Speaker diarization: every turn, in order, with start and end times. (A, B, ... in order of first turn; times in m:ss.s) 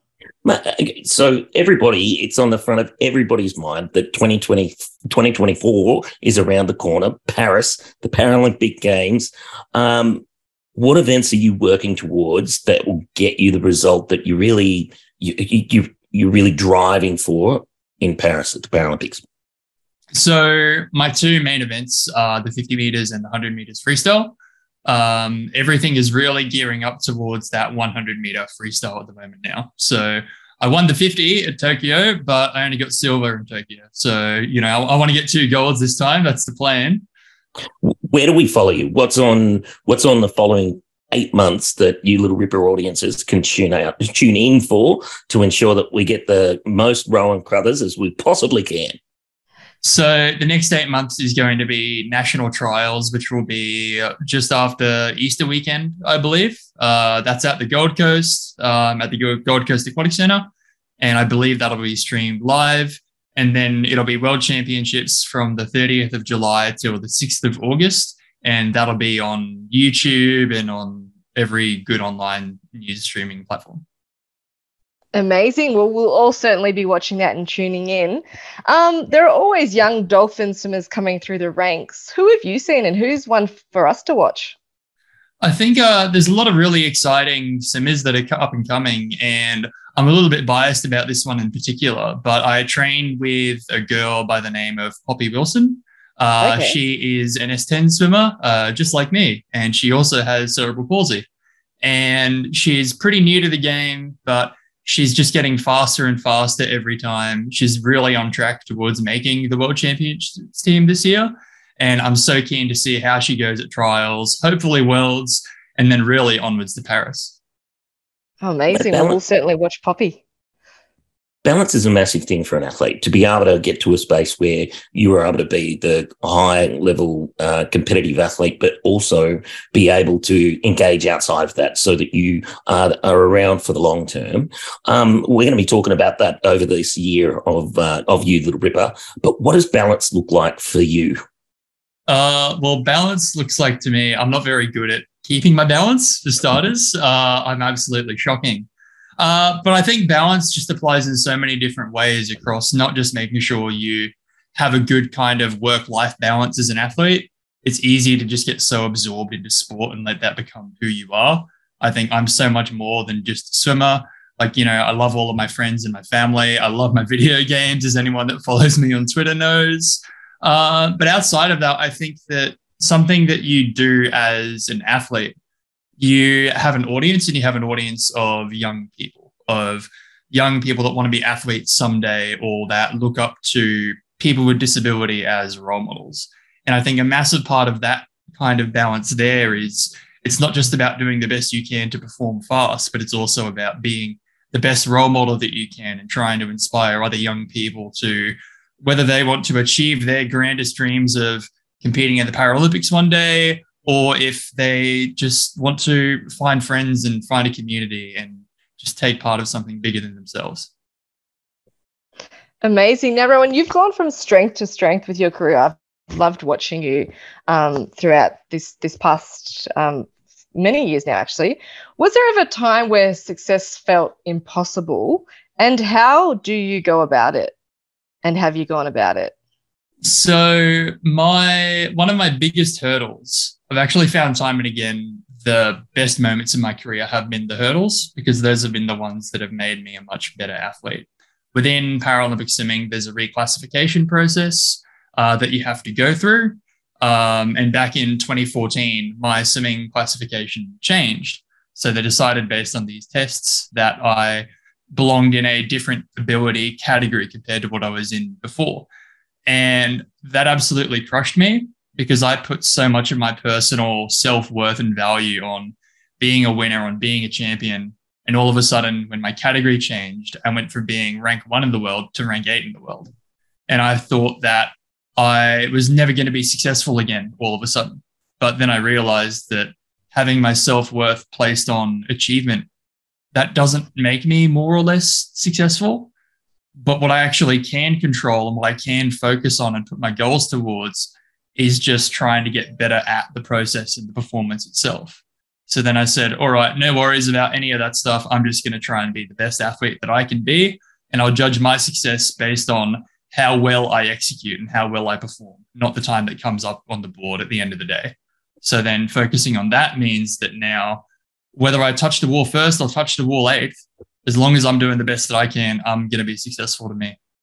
0:00.4-0:10.2 A
0:10.8-0:19.2 A
0:20.1-0:37.0 B
0:37.8-0:49.0 A
0:49.8-1:13.8 B
1:15.1-1:24.6 C
1:25.4-1:41.3 B
1:36.4-1:36.8 C
1:41.8-1:57.4 B
1:58.4-2:00.2 C
1:58.7-1:59.2 A
2:01.4-2:21.2 A
2:22.1-2:55.4 B
2:56.0-3:30.7 B
3:32.6-3:47.6 C
3:48.2-3:49.3 C
3:50.0-4:18.9 B
4:19.5-4:33.1 B
4:33.7-4:42.7 B
4:43.3-4:46.1 B
4:46.8-5:11.0 B
5:11.6-5:17.2 B